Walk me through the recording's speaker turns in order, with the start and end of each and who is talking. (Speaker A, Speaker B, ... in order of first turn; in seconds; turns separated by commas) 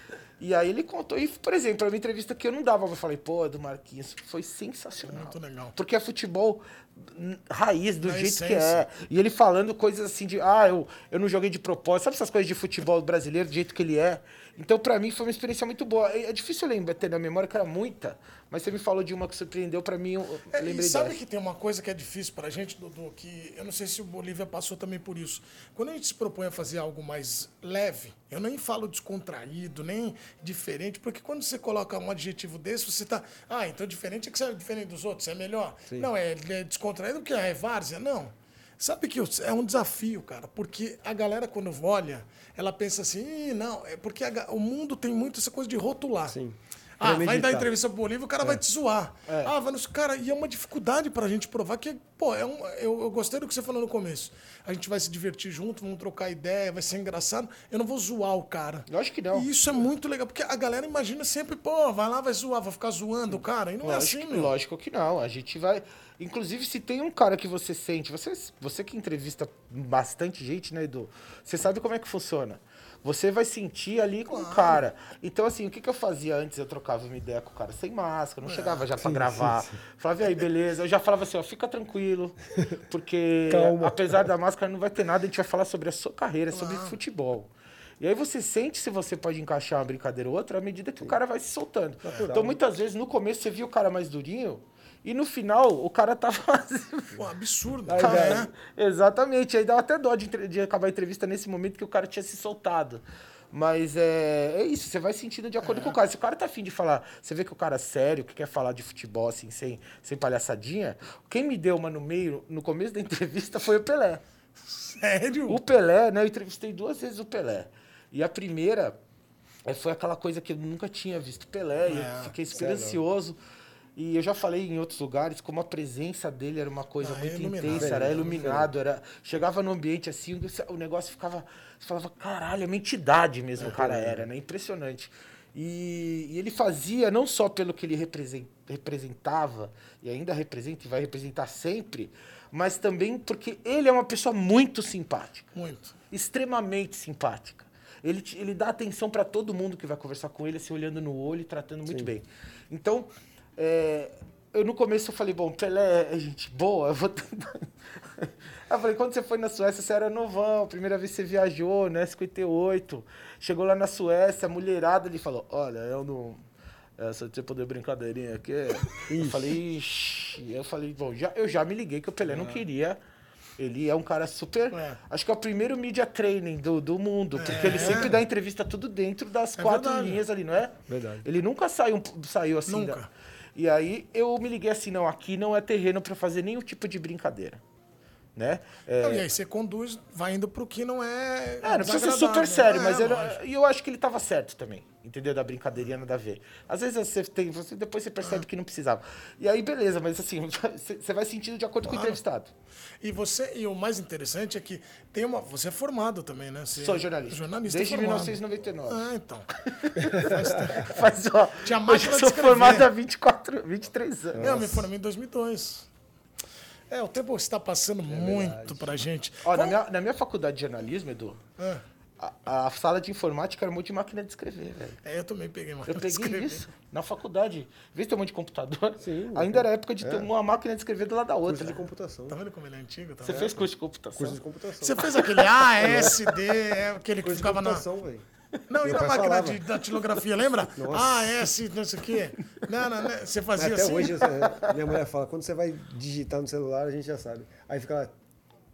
Speaker A: 0.4-21.2, Speaker B: 5.1-5.8, Speaker B: 8.0-8.8, Speaker B: 20.5-46.4, Speaker C: 46.3-47.7, Speaker B: 47.0-64.5, Speaker A: 58.9-59.5, Speaker A: 63.8-97.2, Speaker B: 74.3-74.8, Speaker B: 78.4-78.9, Speaker C: 79.0-79.8, Speaker C: 83.5-84.3, Speaker B: 86.5-87.0, Speaker C: 92.0-92.6, Speaker B: 97.2-98.5, Speaker C: 97.9-98.5, Speaker A: 98.0-114.2, Speaker B: 105.6-106.0, Speaker B: 114.7-115.6, Speaker A: 115.5-119.0, Speaker A: 119.7-123.4, Speaker B: 121.9-122.3, Speaker C: 122.5-123.0, Speaker A: 124.0-145.5, Speaker B: 127.0-128.3, Speaker C: 127.7-128.7, Speaker C: 133.6-134.3, Speaker B: 145.5-145.9, Speaker A: 146.1-166.4, Speaker A: 167.0-173.0, Speaker C: 169.1-169.6, Speaker C: 172.2-172.6, Speaker A: 173.6-183.0, Speaker B: 174.7-175.0, Speaker B: 177.4-178.2, Speaker C: 177.7-178.1, Speaker B: 179.6-180.2, Speaker C: 180.9-181.3, Speaker B: 182.7-183.1, Speaker A: 183.6-187.6, Speaker A: 188.4-189.2, Speaker B: 189.0-193.4, Speaker A: 191.6-202.5, Speaker B: 201.9-202.2, Speaker B: 203.0-209.5, Speaker A: 206.8-209.0, Speaker A: 209.6-214.6, Speaker B: 210.1-211.0, Speaker B: 211.6-212.9, Speaker C: 214.3-214.9, Speaker B: 214.4-215.9, Speaker B: 216.9-219.8, Speaker C: 218.1-218.9, Speaker A: 219.4-221.4, Speaker A: 222.2-225.0, Speaker B: 225.0-226.6, Speaker A: 225.9-231.8, Speaker C: 229.0-230.3, Speaker C: 231.5-232.4, Speaker B: 232.3-233.5, Speaker A: 233.2-234.4, Speaker C: 233.3-235.3, Speaker B: 234.8-237.8, Speaker A: 235.2-236.2, Speaker C: 235.8-236.2, Speaker C: 237.2-238.2, Speaker B: 238.7-244.5, Speaker C: 238.8-239.6, Speaker C: 240.7-241.4, Speaker C: 243.6-248.1